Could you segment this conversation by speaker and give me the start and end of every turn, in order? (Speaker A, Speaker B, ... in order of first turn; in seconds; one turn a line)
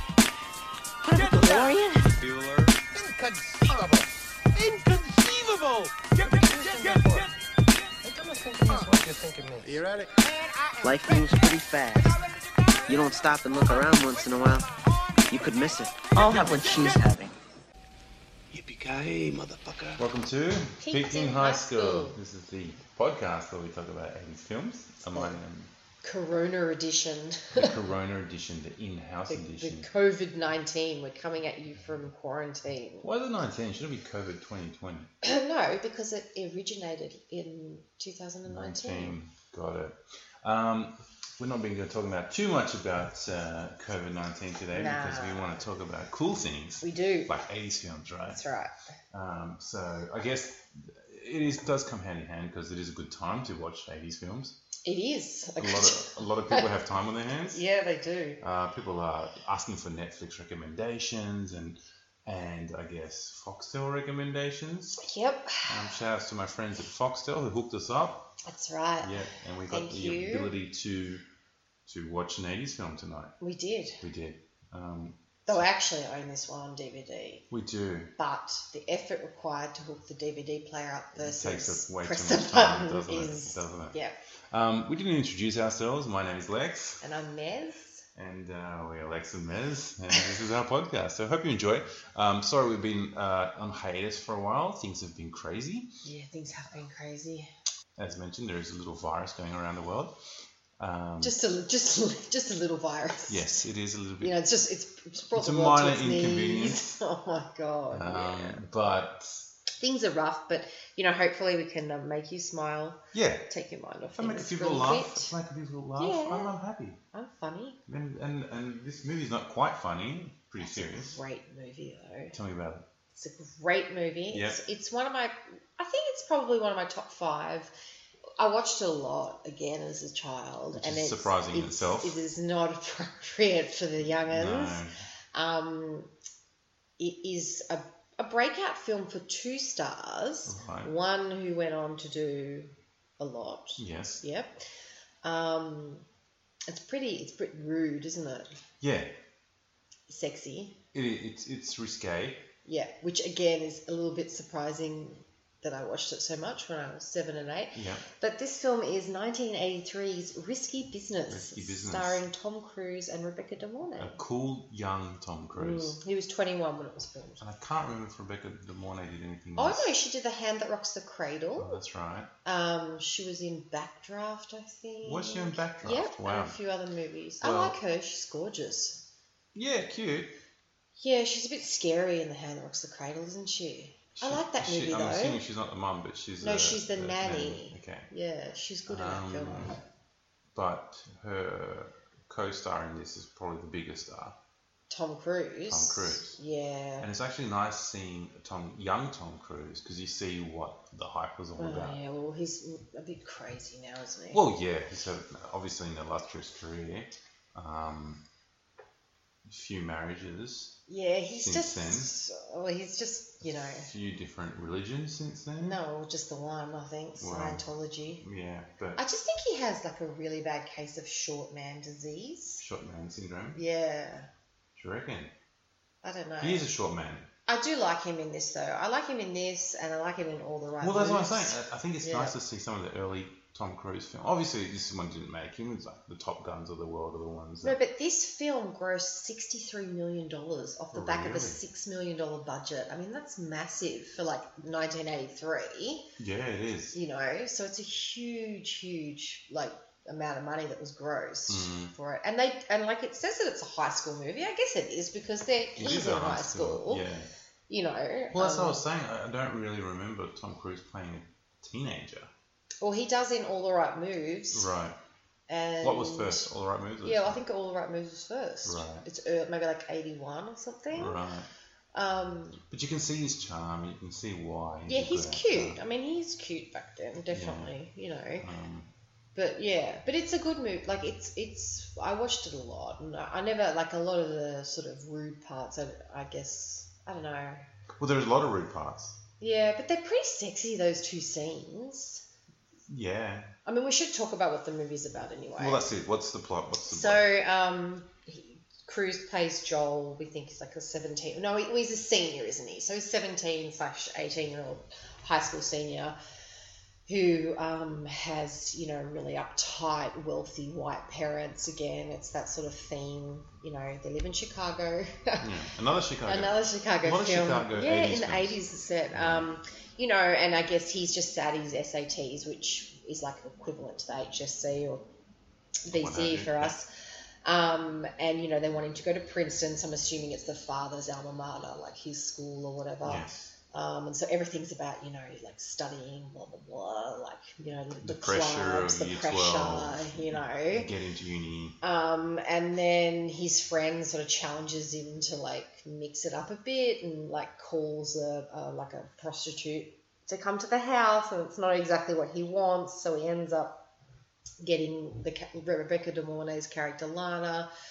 Speaker A: 1.0-2.1
Speaker B: 1.1-1.7
Speaker C: 2.2-2.8
Speaker B: 2.9-7.3
Speaker B: 8.0-10.1
Speaker A: 10.8-12.1
Speaker A: 12.9-14.7
Speaker A: 15.3-17.3
Speaker C: 18.5-20.0
Speaker D: 20.0-25.7
Speaker E: 20.8-22.2
Speaker E: 25.1-25.4
Speaker E: 26.0-27.7
Speaker D: 27.5-29.9
Speaker E: 29.3-33.0
Speaker D: 33.0-35.1
Speaker E: 35.2-39.2
Speaker D: 38.5-48.4
Speaker E: 44.7-45.6
Speaker E: 46.8-47.3
Speaker E: 48.3-48.7
Speaker D: 49.1-54.5
Speaker E: 54.8-56.7
Speaker D: 55.6-57.6
Speaker E: 57.5-58.4
Speaker D: 58.4-65.0
Speaker E: 65.0-65.9
Speaker D: 65.6-68.3
Speaker E: 68.4-69.2
Speaker D: 69.0-71.2
Speaker E: 69.7-70.5
Speaker D: 71.9-73.3
Speaker E: 73.4-74.0
Speaker D: 74.0-75.7
Speaker E: 75.5-77.4
Speaker D: 77.5-78.1
Speaker E: 78.2-84.1
Speaker D: 81.2-84.0
Speaker D: 84.5-87.1
Speaker E: 87.0-88.0
Speaker D: 88.2-95.9
Speaker E: 96.0-97.5
Speaker D: 98.0-100.2
Speaker D: 100.8-101.4
Speaker E: 101.2-103.6
Speaker D: 103.3-104.4
Speaker E: 104.2-108.6
Speaker D: 105.3-107.0
Speaker D: 107.9-109.5
Speaker E: 109.8-115.3
Speaker D: 113.1-113.5
Speaker D: 114.1-117.0
Speaker E: 116.0-116.6
Speaker E: 117.1-117.8
Speaker D: 117.9-121.2
Speaker E: 120.6-122.3
Speaker D: 122.3-122.9
Speaker E: 123.1-127.7
Speaker D: 124.3-124.6
Speaker E: 128.4-134.8
Speaker D: 130.7-132.2
Speaker D: 134.2-134.9
Speaker E: 135.3-136.1
Speaker E: 137.0-144.6
Speaker D: 140.5-140.9
Speaker D: 143.8-144.2
Speaker E: 145.2-146.1
Speaker E: 146.7-148.6
Speaker D: 148.8-149.1
Speaker E: 150.1-150.8
Speaker D: 150.9-152.4
Speaker E: 152.7-164.2
Speaker D: 157.7-158.0
Speaker D: 161.3-162.2
Speaker D: 164.0-166.0
Speaker E: 165.5-167.4
Speaker D: 167.4-170.0
Speaker E: 169.6-171.8
Speaker D: 171.6-172.3
Speaker E: 172.4-179.0
Speaker D: 175.0-176.6
Speaker D: 177.4-177.8
Speaker D: 179.5-180.3
Speaker E: 181.0-185.4
Speaker D: 184.2-188.1
Speaker E: 186.4-189.8
Speaker D: 188.9-189.8
Speaker D: 190.5-194.3
Speaker E: 194.9-197.1
Speaker D: 195.7-196.4
Speaker D: 197.0-202.0
Speaker E: 201.6-204.4
Speaker D: 204.3-208.2
Speaker D: 209.5-210.8
Speaker E: 210.9-213.9
Speaker D: 211.4-212.1
Speaker D: 213.4-215.8
Speaker E: 215.6-218.2
Speaker D: 217.2-217.7
Speaker D: 218.2-219.0
Speaker E: 219.0-222.6
Speaker D: 222.6-223.6
Speaker E: 223.5-224.3
Speaker D: 224.8-225.3
Speaker E: 226.0-226.7
Speaker D: 226.4-227.3
Speaker E: 227.5-232.3
Speaker D: 230.8-237.8
Speaker E: 237.6-246.1
Speaker D: 240.9-241.6
Speaker D: 246.2-247.0
Speaker E: 246.9-257.0
Speaker D: 251.5-251.9
Speaker D: 255.8-257.3
Speaker E: 257.7-258.8
Speaker D: 258.3-262.3
Speaker E: 262.8-264.7
Speaker D: 264.5-265.0
Speaker E: 265.5-266.4
Speaker D: 265.8-267.4
Speaker E: 267.0-271.2
Speaker D: 268.6-269.1
Speaker D: 270.9-271.5
Speaker E: 271.9-272.6
Speaker D: 272.7-275.8
Speaker E: 274.9-278.4
Speaker D: 277.3-277.8
Speaker D: 278.4-278.9
Speaker E: 279.4-287.7
Speaker D: 287.9-289.2
Speaker E: 289.4-292.2
Speaker D: 292.9-293.5
Speaker E: 293.6-295.9
Speaker D: 295.6-297.2
Speaker E: 296.9-306.1
Speaker E: 307.1-315.5
Speaker D: 315.4-318.6
Speaker E: 316.2-325.0
Speaker D: 319.1-319.5
Speaker E: 325.9-326.9
Speaker D: 325.9-326.8
Speaker E: 327.4-340.9
Speaker D: 333.0-333.5
Speaker D: 338.0-341.8
Speaker E: 341.8-353.8
Speaker E: 354.6-357.7